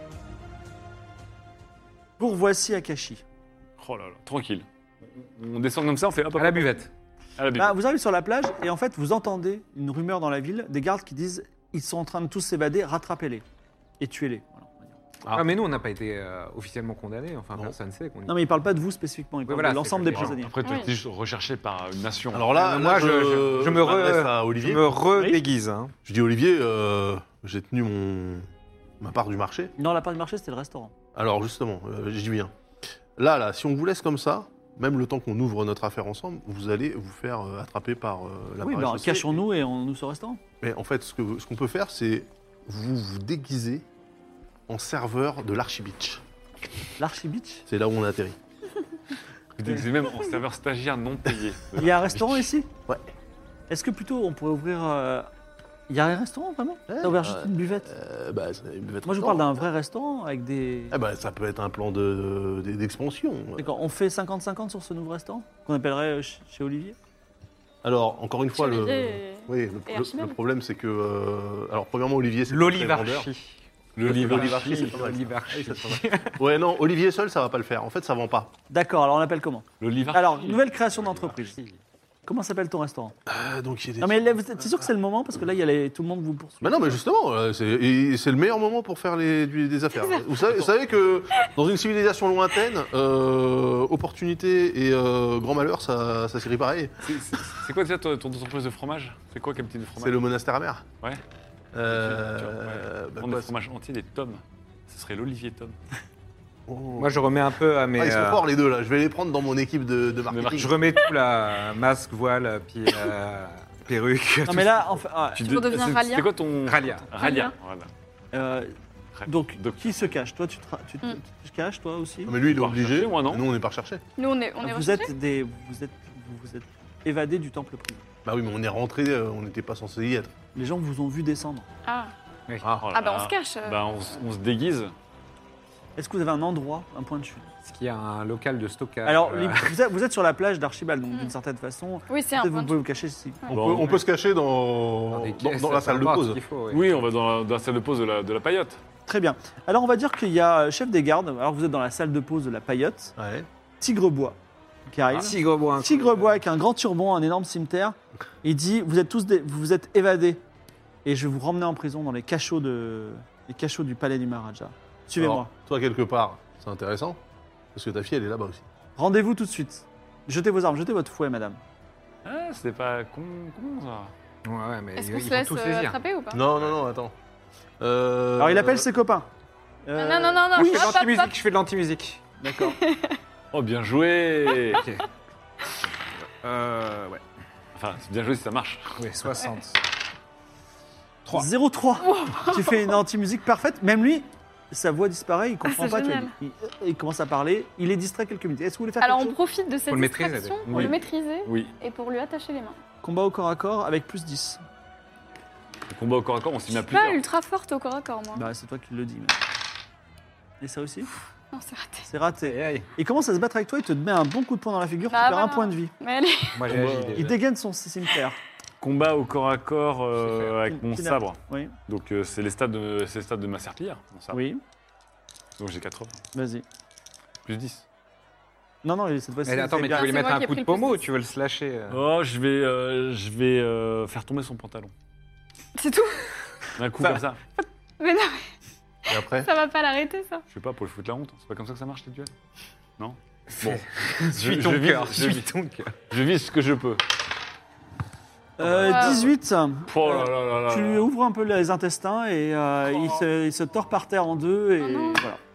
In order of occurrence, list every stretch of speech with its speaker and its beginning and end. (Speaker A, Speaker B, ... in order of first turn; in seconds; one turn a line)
Speaker A: 2.2-3.2
Speaker B: 3.8-7.8
Speaker C: 6.3-6.9
Speaker A: 7.5-13.4
Speaker A: 14.0-15.0
Speaker D: 15.2-15.5
Speaker C: 15.3-18.4
Speaker A: 18.3-20.6
Speaker C: 19.4-20.4
Speaker B: 20.1-22.5
Speaker E: 20.6-20.9
Speaker D: 22.3-24.8
Speaker C: 22.5-25.9
Speaker D: 26.0-28.5
Speaker D: 29.0-29.7
Speaker A: 29.8-30.9
Speaker D: 31.1-32.5
Speaker D: 33.2-39.4
Speaker A: 38.6-40.4
Speaker D: 40.6-43.8
Speaker D: 44.7-46.2
Speaker A: 47.0-47.6
Speaker D: 47.7-48.4
Speaker B: 49.5-52.5
Speaker A: 51.7-52.7
Speaker A: 53.7-55.3
Speaker A: 55.9-57.9
Speaker D: 56.9-59.5
Speaker A: 59.0-61.0
Speaker D: 60.9-63.7
Speaker A: 63.6-67.0
Speaker D: 67.8-73.3
Speaker E: 68.5-70.4
Speaker C: 72.5-76.5
Speaker B: 74.0-75.0
Speaker D: 74.0-78.5
Speaker A: 78.7-81.6
Speaker B: 79.8-80.6
Speaker C: 80.9-81.8
Speaker A: 82.2-83.1
Speaker D: 83.3-84.3
Speaker A: 84.0-87.0
Speaker D: 86.6-97.0
Speaker B: 97.0-100.2
Speaker D: 100.0-100.8
Speaker D: 101.7-103.5
Speaker B: 101.9-105.8
Speaker D: 106.7-107.2
Speaker C: 106.9-108.5
Speaker D: 108.0-110.8
Speaker B: 110.3-110.8
Speaker C: 110.5-115.0
Speaker A: 114.4-115.6
Speaker B: 115.3-117.9
Speaker E: 115.4-116.3
Speaker C: 116.6-117.0
Speaker E: 117.2-117.5
Speaker A: 118.3-118.7
Speaker B: 119.1-119.8
Speaker A: 119.2-122.3
Speaker D: 122.3-124.0
Speaker B: 122.4-123.5
Speaker E: 124.2-125.1
Speaker A: 124.6-128.0
Speaker D: 128.2-130.3
Speaker A: 130.5-131.7
Speaker E: 131.8-132.1
Speaker B: 132.8-134.9
Speaker E: 132.9-133.8
Speaker A: 136.0-137.5
Speaker C: 137.6-139.7
Speaker A: 139.0-143.5
Speaker E: 142.1-142.8
Speaker E: 143.4-143.8
Speaker B: 143.5-144.0
Speaker D: 143.5-146.4
Speaker C: 145.1-147.1
Speaker B: 146.7-148.8
Speaker A: 149.1-153.1
Speaker D: 153.2-153.5
Speaker A: 153.8-160.4
Speaker C: 155.1-156.3
Speaker A: 161.0-165.5
Speaker D: 165.6-167.2
Speaker D: 167.7-168.7
Speaker A: 169.0-171.6
Speaker B: 172.2-174.1
Speaker C: 174.4-176.0
Speaker E: 175.0-176.5
Speaker D: 176.3-177.1
Speaker D: 177.8-178.8
Speaker A: 178.4-179.3
Speaker A: 179.8-180.9
Speaker E: 179.9-181.3
Speaker C: 180.5-182.2
Speaker A: 182.4-182.8
Speaker E: 182.6-183.2
Speaker B: 183.5-184.8
Speaker C: 184.7-185.1
Speaker C: 186.2-187.2
Speaker B: 187.7-189.0
Speaker C: 189.0-189.8
Speaker C: 191.2-191.5
Speaker A: 191.3-199.3
Speaker E: 192.0-192.9
Speaker E: 195.6-196.3
Speaker E: 199.0-202.8
Speaker C: 199.9-200.9
Speaker B: 200.7-201.7
Speaker A: 203.0-204.6
Speaker B: 205.9-207.2
Speaker E: 206.7-208.5
Speaker A: 208.3-209.4
Speaker A: 210.6-211.1
Speaker E: 211.5-212.1
Speaker A: 212.0-215.9
Speaker C: 212.4-212.9
Speaker E: 215.1-216.6
Speaker C: 216.5-217.4
Speaker B: 216.7-217.3
Speaker A: 217.2-218.4
Speaker B: 218.8-224.4
Speaker C: 220.2-220.5
Speaker A: 220.7-221.7
Speaker A: 224.3-224.6
Speaker B: 225.6-226.2
Speaker A: 226.3-226.6
Speaker B: 227.4-227.8
Speaker A: 228.8-230.2
Speaker C: 229.4-232.1
Speaker E: 229.8-231.0
Speaker B: 231.9-234.9
Speaker E: 235.8-236.3
Speaker B: 236.8-237.4
Speaker E: 237.6-238.5
Speaker D: 239.1-239.5
Speaker E: 239.3-240.4
Speaker B: 240.5-242.3
Speaker B: 243.0-245.5
Speaker C: 243.5-245.9
Speaker B: 246.1-247.0
Speaker A: 248.6-255.4
Speaker B: 248.6-249.3
Speaker E: 248.8-249.3
Speaker B: 249.9-251.1
Speaker E: 254.8-255.2